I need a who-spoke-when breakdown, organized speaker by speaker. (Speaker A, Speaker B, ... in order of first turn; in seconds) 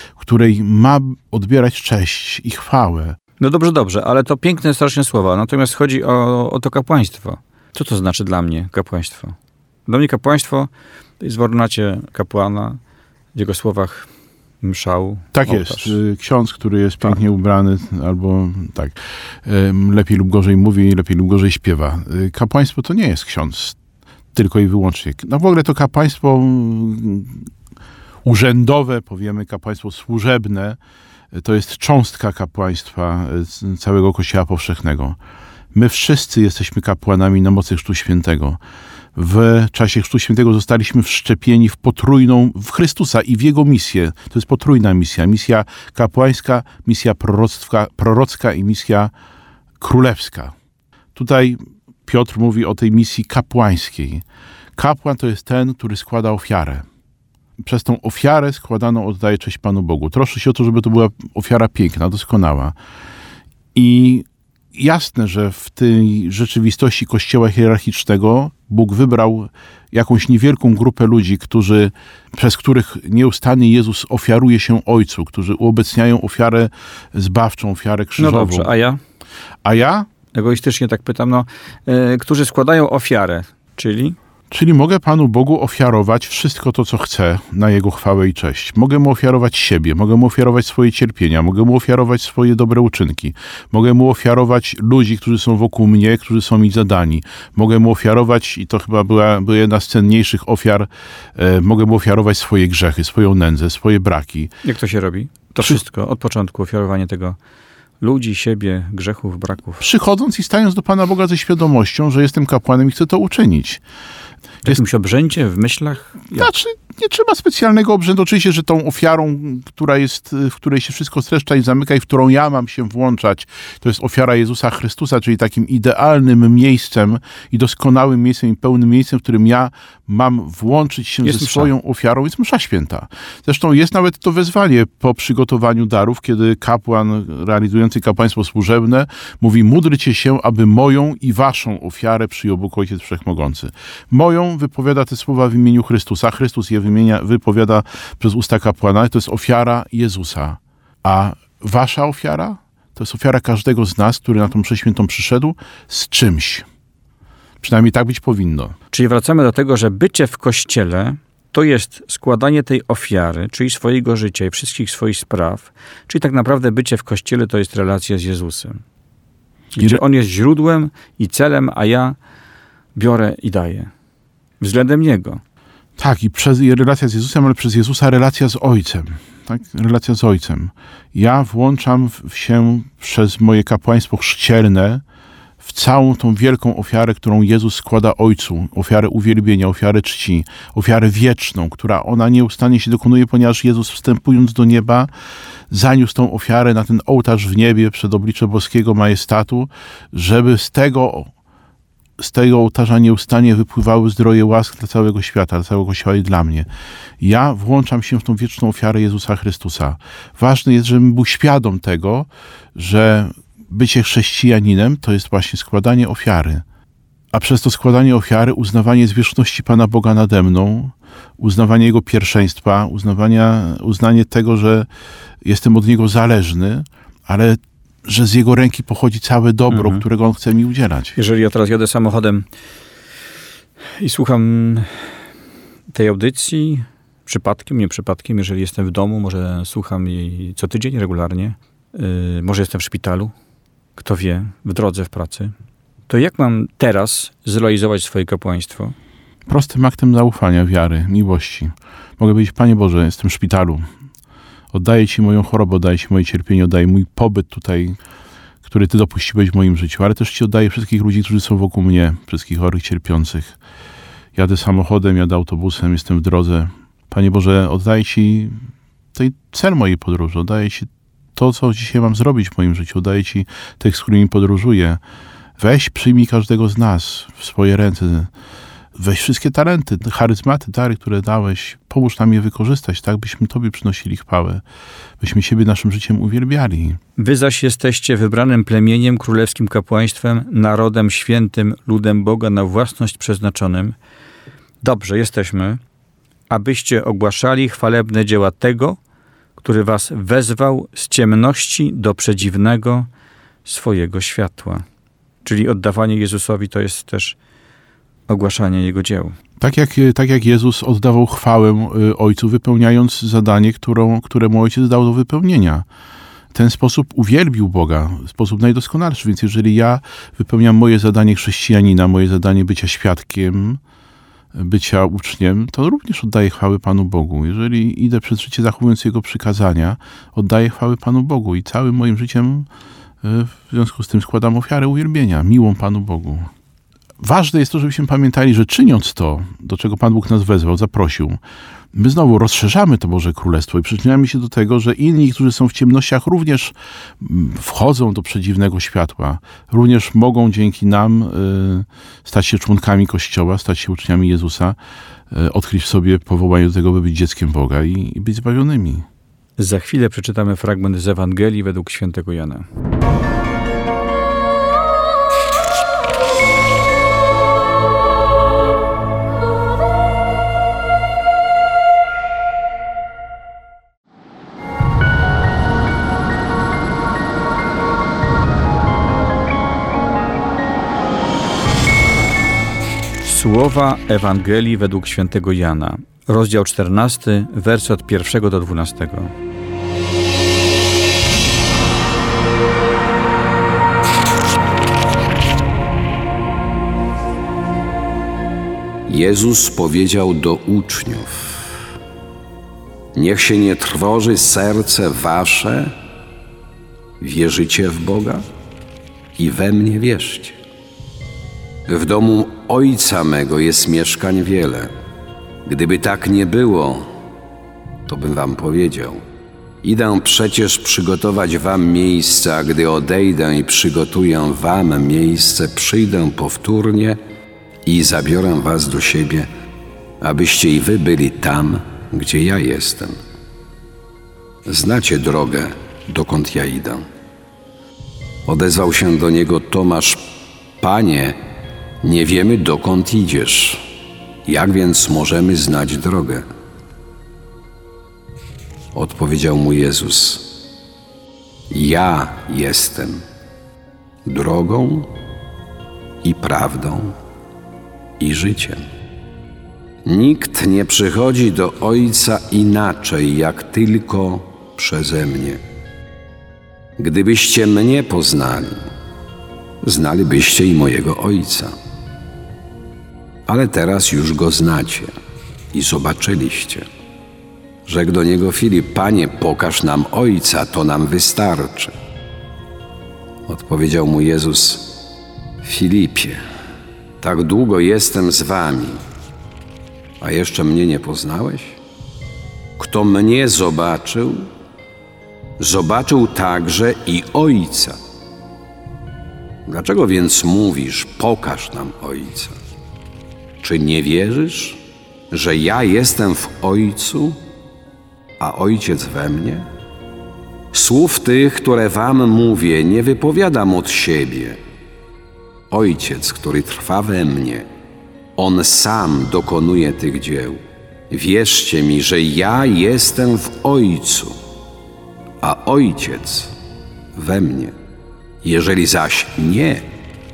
Speaker A: 0.2-3.2, 15.3-23.8, 24.3-27.5, 28.2-30.8, 31.3-35.2, 35.7-38.6, 39.1-49.1, 49.8-50.5, 51.1-54.2, 54.8-56.9, 57.6-62.8, 63.7-78.7, 79.6-80.1, 84.5-104.5, 109.8-113.8, 116.3-156.7, 157.6-158.8, 176.0-185.0, 185.6-195.1, 195.7-201.3, 202.2-206.7, 207.2-216.6, 217.3-224.9, 225.4-231.1, 249.5-253.9, 254.7-258.0, 258.6-263.6, 264.3-275.0, 275.6-278.3, 278.9-284.6, 285.2-287.0, 309.6-315.9, 316.5-323.8, 324.5-332.7, 333.2-336.5, 337.2-341.4, 341.9-354.8, 355.3-359.1
Speaker B: 3.4-12.8, 13.3-14.1, 14.6-16.0, 78.2-79.0, 80.3-84.2, 104.6-107.4, 108.0-109.8, 114.6-116.4, 131.2-131.7, 158.9-168.8, 169.7-172.2, 172.9-173.9, 174.6-175.4, 229.7-230.0, 231.1-232.4, 234.0-234.9, 235.9-243.3, 244.0-245.5, 246.1-248.9, 287.2-293.9, 294.8-295.8, 296.5-299.0, 299.6-303.1, 303.6-304.8, 305.4-307.4, 308.3-309.4, 359.6-362.7, 383.2-389.3
Speaker C: 399.1-401.7, 403.1-405.9, 407.2-408.4, 409.4-410.6, 411.9-414.9, 415.6-417.1, 418.1-419.2, 419.8-427.2, 427.9-429.5, 430.2-433.2, 434.6-437.0, 438.4-440.2, 440.8-441.4, 442.0-443.9, 444.4-446.4, 448.9-450.6, 451.7-453.2, 454.2-455.1, 456.2-457.1, 458.2-458.8, 460.0-465.6, 467.0-468.8, 469.8-471.7, 473.5-475.1, 475.7-476.9, 477.9-481.9, 483.5-485.0, 485.6-486.4, 487.2-489.0, 490.2-491.8, 492.8-494.5, 495.6-498.0, 499.7-502.5, 503.6-507.4, 508.4-509.7, 510.7-514.6, 515.7-517.7, 518.4-524.4, 525.4-526.5, 527.1-527.7, 528.4-529.8